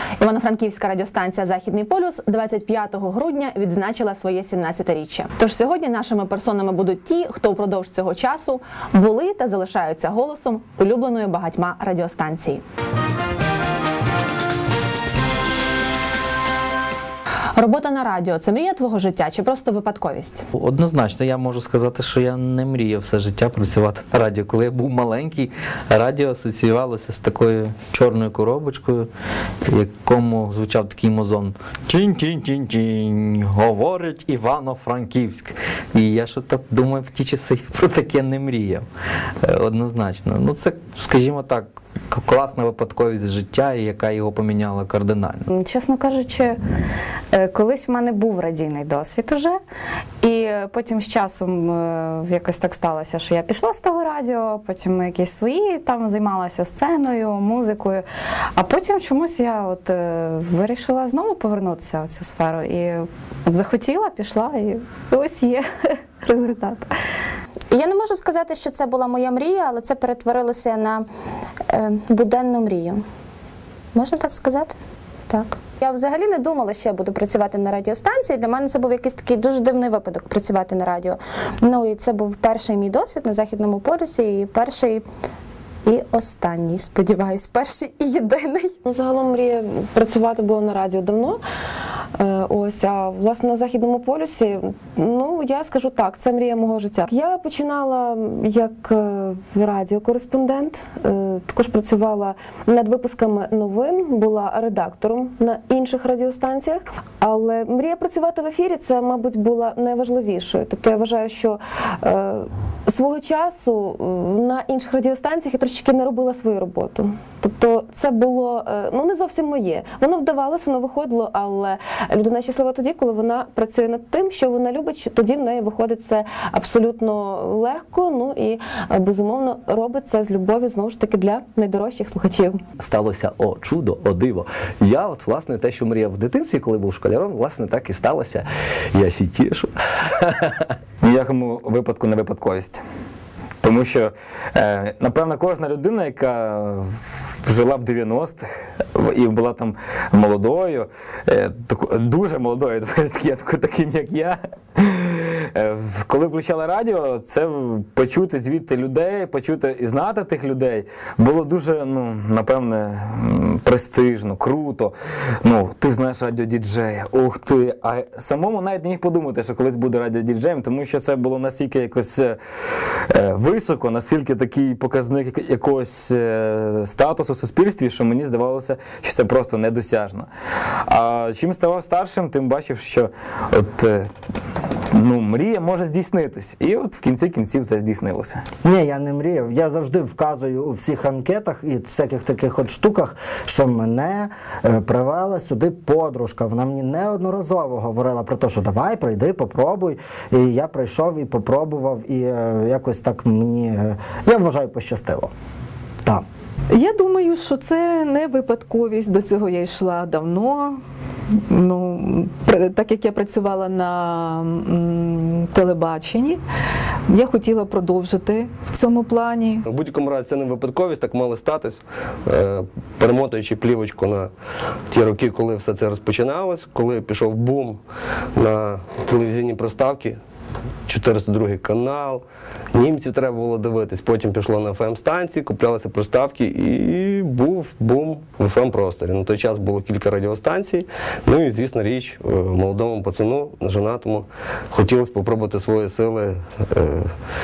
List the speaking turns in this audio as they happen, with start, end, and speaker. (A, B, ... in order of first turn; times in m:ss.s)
0:00.2-0:12.6 A
0:17.6-0:20.4 A
0:20.5-0:29.1 B
0:29.6-0:38.8 B
0:39.4-0:45.4 B
0:45.5-0:46.6 C
0:47.3-0:49.6 C
0:50.2-0:58.0 C
0:58.6-1:06.9 C
1:07.7-1:11.1 D
1:11.7-1:13.0 D
1:13.9-1:14.8 D
1:15.3-1:25.0 D
1:25.8-1:28.7 D
1:28.8-1:31.4 E
1:32.1-2:12.6 E
2:12.8-2:20.6 F
2:21.0-2:22.8 G
2:23.6-2:52.4 G
2:53.1-3:00.3 G
3:00.9-3:04.1 G
3:04.9-3:08.4 G
3:08.6-3:25.3 H
3:26.7-3:36.4 I
3:37.1-3:39.6 I
3:39.6-3:44.3 J
3:44.9-3:47.8 J
3:48.4-3:50.2 J
3:50.9-4:07.1 J